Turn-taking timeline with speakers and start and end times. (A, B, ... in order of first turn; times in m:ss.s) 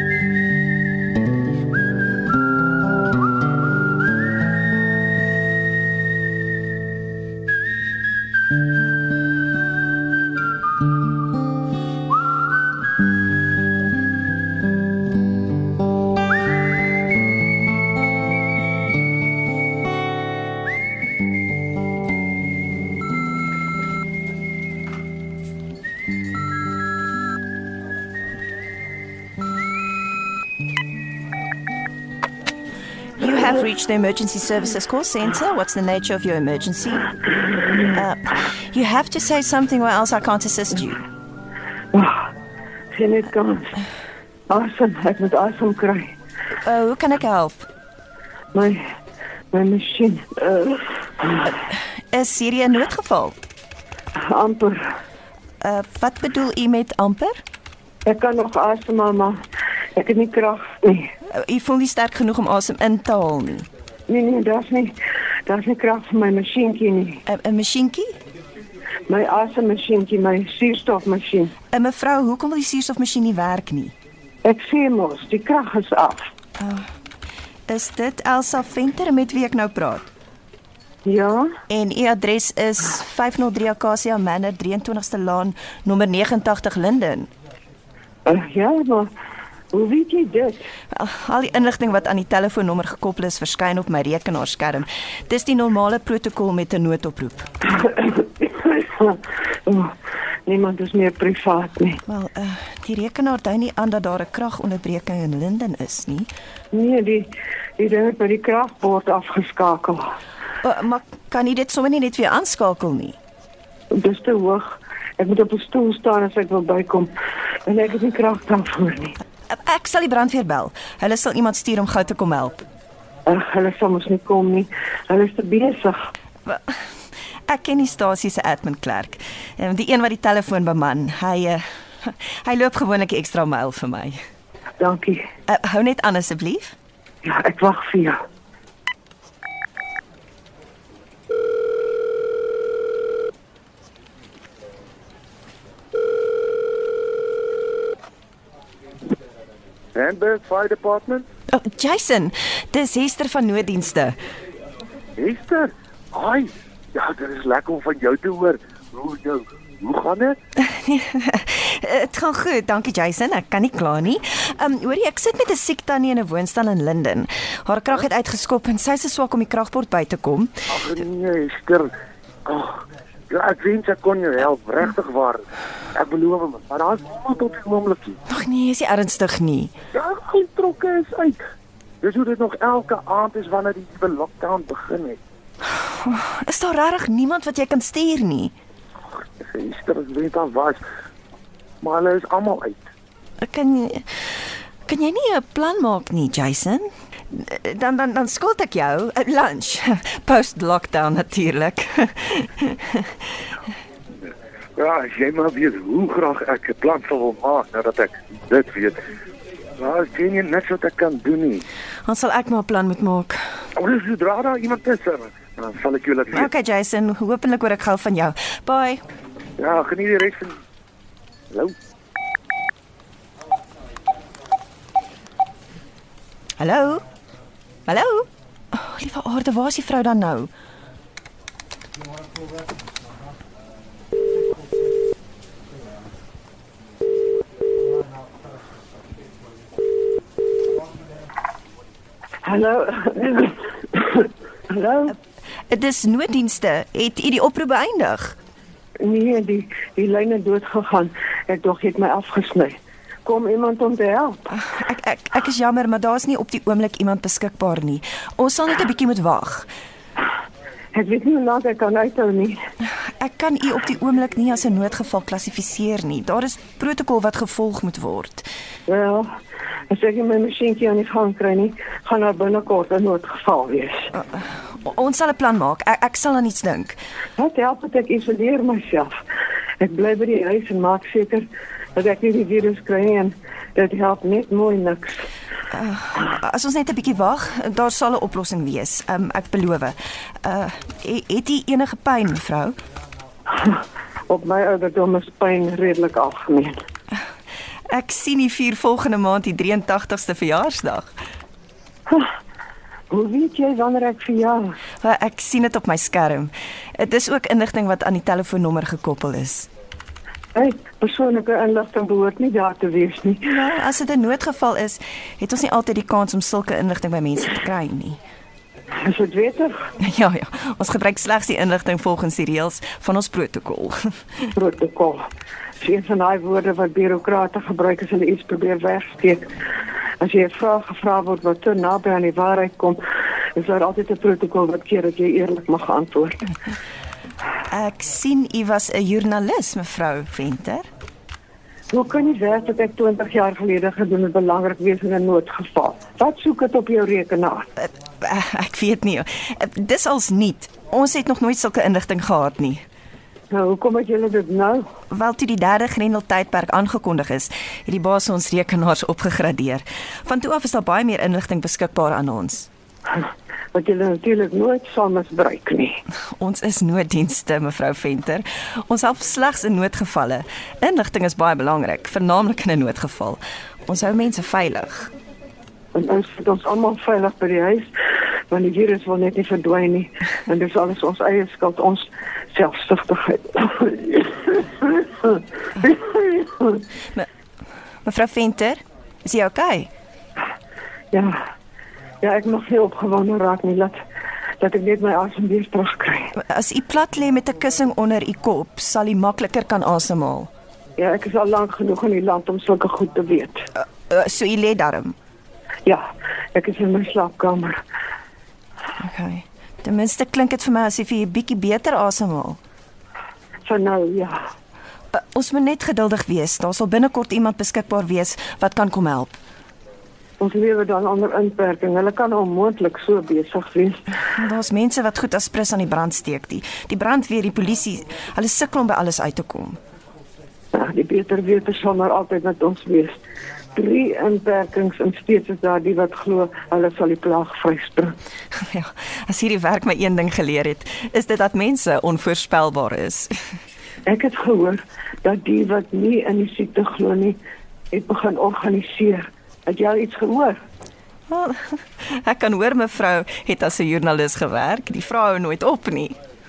0:33.2-0:37.1 A
0:37.8-0:41.0 A
0:41.9-0:42.3 B
0:42.9-0:43.7 B
0:44.5-0:46.1 B
0:46.6-0:47.6 A
0:48.5-0:48.8 B
0:49.5-0:51.0 B
0:51.4-0:53.4 A
0:54.2-0:54.9 B
0:55.6-0:57.4 A
0:58.0-0:59.4 B
1:00.0-1:01.1 B
1:01.3-1:03.7 A
1:04.1-1:04.9 B
1:05.4-1:07.2 B
1:07.2-1:08.2 A
1:09.1-1:11.5 B
1:11.7-1:14.0 A
1:14.4-1:16.3 B
1:16.6-1:16.9 A
1:17.7-1:20.1 A
1:21.0-1:21.6 B
1:21.7-1:27.3 A
1:28.2-1:29.1 B
1:29.7-1:30.7 B
1:30.9-1:37.4 A
1:37.8-1:39.9 B
1:40.5-1:42.0 B
1:42.0-1:46.3 A
1:46.7-1:50.1 B
1:50.6-1:53.2 A
1:53.9-1:57.1 B
1:57.6-1:59.2 B
1:59.5-2:02.6 A
2:03.2-2:06.0 B
2:06.4-2:06.8 A
2:07.4-2:14.2 A
2:14.8-2:15.3 B
2:15.5-2:16.8 A
2:17.2-2:18.2 B
2:29.9-2:31.2 C
2:31.5-2:34.2 A
2:35.2-2:40.4 C
2:40.6-2:50.6 A
2:50.7-2:51.9 C
2:52.5-2:55.4 C
2:55.9-2:58.2 C
2:58.3-2:59.7 A
2:59.9-3:01.4 C
3:02.0-3:05.2 C
3:05.7-3:08.5 A
3:09.4-3:10.8 C
3:11.8-3:12.8 C
3:13.4-3:23.2 A
3:24.8-3:29.0 C
3:29.8-3:31.6 C
3:32.0-3:33.4 A
3:33.8-3:36.5 C
3:36.3-3:39.0 A
3:39.6-3:40.6 C
3:46.6-3:47.0 A
3:47.9-3:50.5 A
4:02.4-4:05.1 B
4:05.7-4:08.4 A
4:09.0-4:14.4 B
4:14.5-4:19.7 A
4:20.9-4:22.6 B
4:22.8-4:28.5 A
4:28.9-4:29.3 B
4:29.9-4:34.1 B
4:34.1-4:37.0 A
4:37.4-4:39.1 B
4:39.8-4:45.2 B
4:45.7-4:52.8 A
4:54.3-4:56.8 B
4:57.9-5:01.1 A
5:03.1-5:04.8 B
5:05.0-5:09.7 A
5:10.5-5:13.5 B
5:13.4-5:18.2 A
5:19.0-5:19.8 B
5:20.0-5:24.1 A
5:24.5-5:25.2 B
5:25.8-5:29.4 B
5:30.2-5:33.0 B
5:33.6-5:36.5 B
5:37.7-5:40.9 A
5:41.9-5:47.6 B
5:47.8-5:52.8 A
5:53.5-5:54.9 B
5:55.1-6:02.7 A
6:03.1-6:06.0 B
6:06.4-6:15.1 A
6:15.9-6:17.9 B
6:18.5-6:26.8 B
6:28.0-6:29.9 A
6:31.1-6:31.4 B
6:32.2-6:34.0 B
6:34.6-6:36.3 B
6:36.3-6:40.5 A
6:41.0-6:43.6 B
6:43.8-6:45.2 A
6:45.8-6:47.8 B
6:49.0-6:52.6 A
6:53.6-6:54.4 B
6:55.1-6:59.4 A
7:00.4-7:04.0 B
7:04.3-7:09.8 A
7:10.7-7:13.2 B
7:13.8-7:18.2 B
7:18.5-7:23.4 A
7:24.0-7:27.4 B
7:27.9-7:30.6 B
7:31.3-7:36.2 A